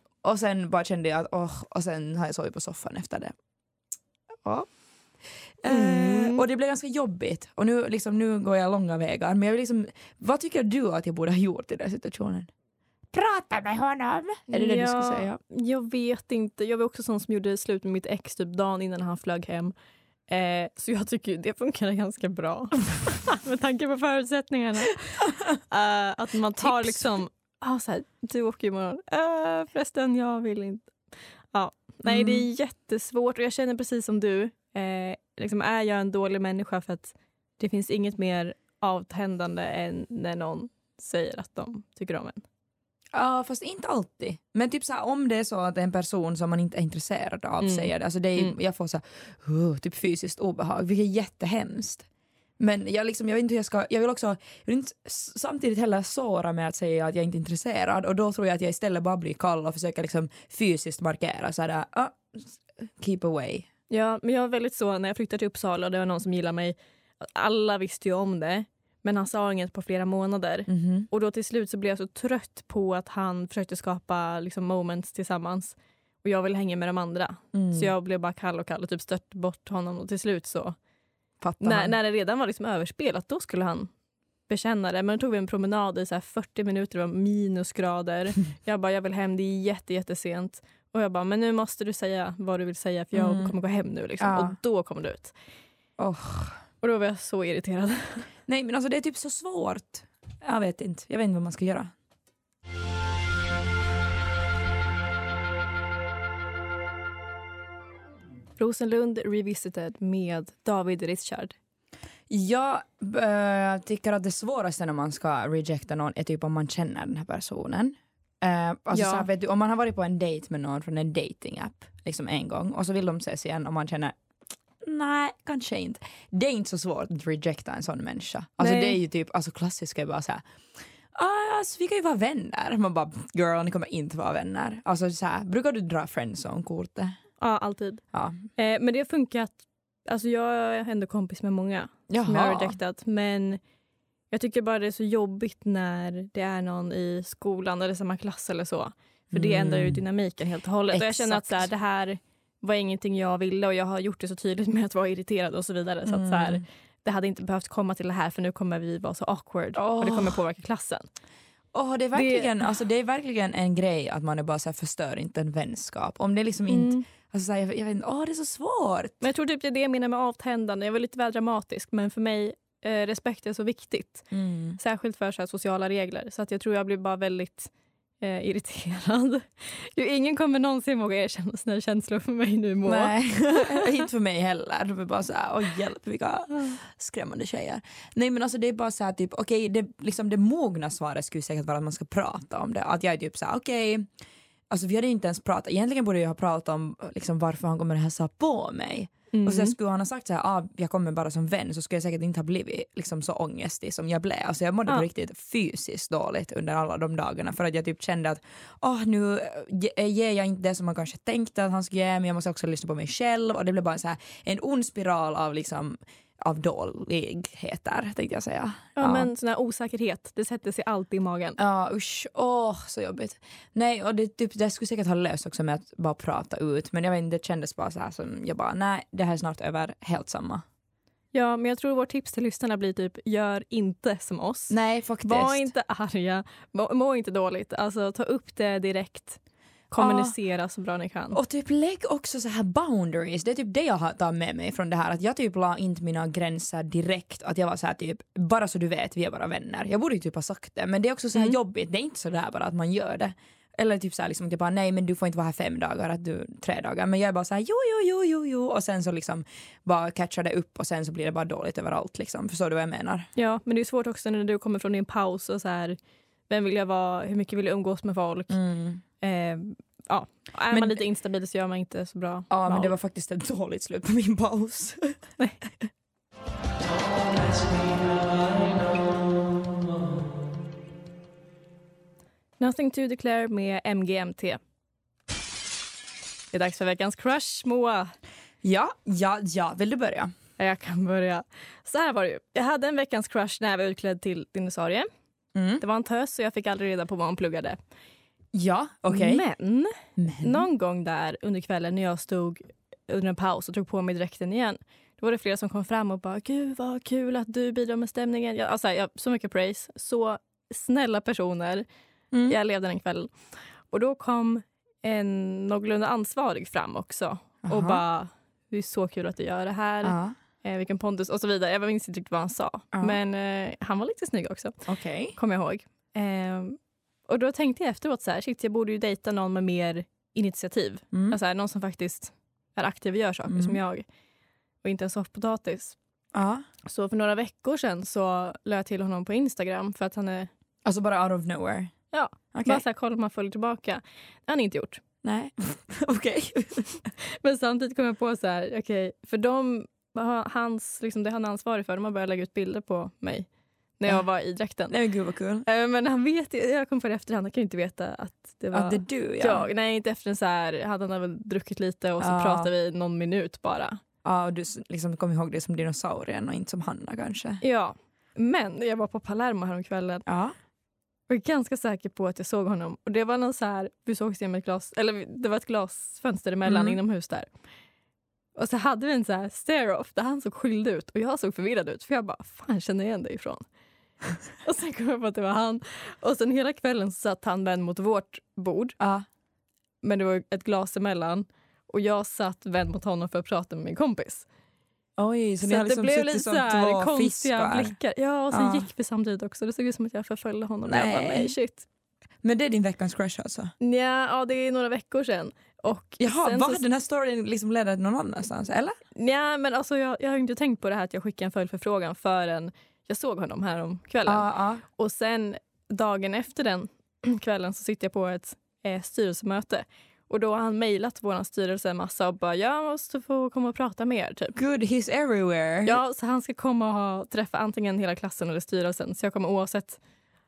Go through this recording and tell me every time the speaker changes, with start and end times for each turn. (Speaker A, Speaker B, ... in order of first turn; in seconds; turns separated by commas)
Speaker A: 0.2-3.3, Speaker A: 5.6-12.5, Speaker B: 5.7-6.5, Speaker A: 13.1-15.4, Speaker B: 14.5-19.7, Speaker B: 20.3-25.1, Speaker B: 25.6-30.9, Speaker A: 26.6-27.2, Speaker B: 31.5-42.4, Speaker A: 32.1-32.5, Speaker A: 43.1-52.1, Speaker B: 47.6-48.5, Speaker A: 52.6-63.7, Speaker B: 63.9-80.8, Speaker A: 70.7-71.1, Speaker A: 77.5-77.9, Speaker A: 81.4-82.0, Speaker B: 81.6-83.9, Speaker B: 84.5-95.3, Speaker A: 93.2-93.5, Speaker A: 94.2-94.6, Speaker A: 96.0-96.6, Speaker B: 96.8-98.3, Speaker A: 98.5-101.9, Speaker B: 108.6-111.5, Speaker A: 112.3-124.2, Speaker B: 118.9-119.3, Speaker A: 124.8-130.4, Speaker B: 128.6-129.0, Speaker A: 131.1-137.2, Speaker B: 137.4-138.0, Speaker A: 138.1-138.4, Speaker B: 138.6-143.6, Speaker A: 142.1-142.8, Speaker B: 144.3-161.1, Speaker A: 149.3-150.0, Speaker A: 150.9-151.7, Speaker A: 156.1-156.6, Speaker A: 159.8-160.4, Speaker A: 161.7-169.2, Speaker B: 162.1-162.7, Speaker B: 166.7-167.0, Speaker B: 169.2-184.0, Speaker A: 174.3-174.8, Speaker A: 182.8-194.1, Speaker A: 194.7-219.3, Speaker B: 199.3-199.8, Speaker B: 219.0-221.6, Speaker A: 221.6-230.6, Speaker B: 231.3-239.4, Speaker A: 234.7-235.7, Speaker B: 239.9-241.4, Speaker A: 240.0-240.3, Speaker A: 241.3-263.3, Speaker B: 263.4-266.0, Speaker B: 266.5-268.6, Speaker A: 268.5-269.0, Speaker B: 269.2-272.9, Speaker A: 270.7-271.0, Speaker A: 272.5-275.2, Speaker B: 282.6-284.6, Speaker B: 286.5-288.1, Speaker A: 288.6-290.3, Speaker B: 290.6-295.1, Speaker A: 295.6-295.8, Speaker B: 295.8-297.8, Speaker A: 298.5-299.4, Speaker B: 299.1-311.9, Speaker A: 300.2-300.7, Speaker B: 312.5-324.8, Speaker A: 317.6-318.0, Speaker A: 320.0-320.4, Speaker A: 324.9-325.4, Speaker B: 325.4-334.1, Speaker A: 331.1-331.4, Speaker A: 333.5-333.8, Speaker B: 334.8-336.0, Speaker A: 336.3-336.6, Speaker B: 336.9-340.5, Speaker A: 340.9-341.9, Speaker B: 342.1-345.0, Speaker A: 342.5-342.8, Speaker A: 345.2-347.0, Speaker B: 347.4-353.5, Speaker B: 354.0-355.0, Speaker A: 354.9-355.6, Speaker B: 355.6-364.0, Speaker A: 358.7-359.7, Speaker A: 362.2-362.7, Speaker A: 364.2-367.6, Speaker B: 367.6-370.2, Speaker A: 370.3-370.5, Speaker B: 371.3-377.5, Speaker A: 376.7-377.0, Speaker B: 378.6-383.6, Speaker B: 384.6-388.9, Speaker A: 389.0-389.2, Speaker B: 390.0-394.5, Speaker A: 395.2-398.0, Speaker B: 395.6-401.9, Speaker A: 398.5-398.9, Speaker A: 400.9-401.6, Speaker A: 402.4-403.7, Speaker B: 403.8-406.8, Speaker A: 406.2-409.0, Speaker B: 409.1-424.6, Speaker A: 414.2-414.8, Speaker A: 424.6-426.0, Speaker B: 425.9-430.0